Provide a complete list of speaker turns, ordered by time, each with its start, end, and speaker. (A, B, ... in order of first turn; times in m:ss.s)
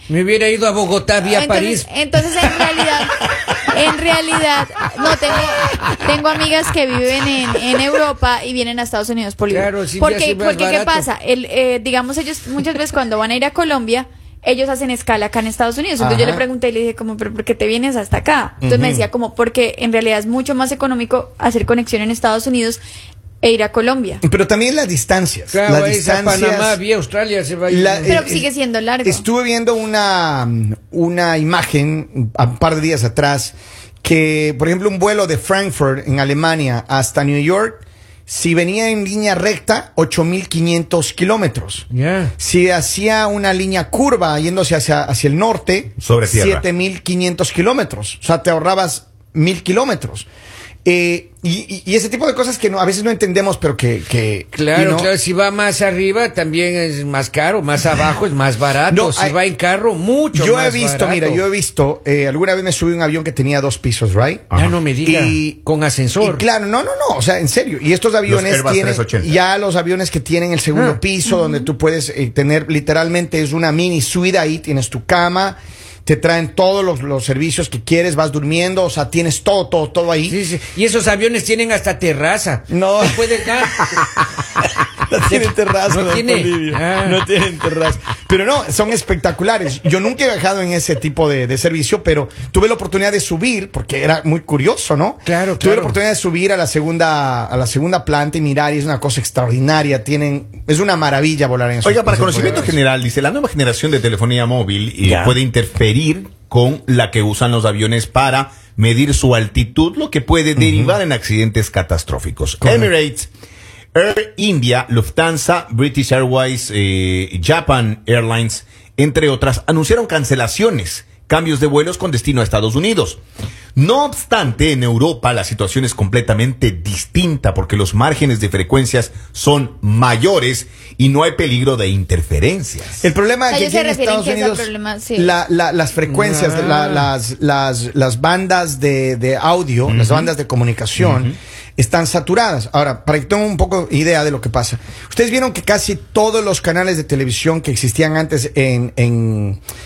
0:00.1-0:01.8 A
0:01.3-0:22.8 B
0:09.5-0:11.0 A
0:16.0-0:16.4 C
0:18.6-0:19.1 C
0:23.4-0:24.2 B
0:24.2-0:26.8 C
0:25.5-0:28.2 A
0:27.7-0:28.5 C
0:28.0-0:29.2 B
0:29.0-0:41.8 C
0:41.9-0:42.3 A
0:42.4-0:50.3 C
0:46.0-0:46.6 D
0:50.8-0:55.1 C
0:54.5-1:01.4 A
0:58.9-0:59.4 C
1:00.3-1:04.5 C
1:04.5-1:04.8 D
1:04.5-1:06.4 A
1:05.0-1:05.6 C
1:06.2-1:20.4 C
1:08.2-1:09.4 D
1:11.3-1:11.6 B
1:20.2-1:24.0 A
1:22.7-1:24.1 C
1:25.1-1:42.8 C
1:25.2-1:27.2 A
1:35.2-1:36.0 A
1:41.8-1:53.3 D
1:45.0-1:45.4 C
1:50.6-1:51.0 C
1:52.6-1:52.9 C
1:53.9-2:03.2 D
2:03.8-2:13.1 D
2:13.0-2:29.6 C
2:13.5-2:15.4 B
2:16.1-2:17.1 A
2:19.9-2:20.3 D
2:21.0-2:21.3 D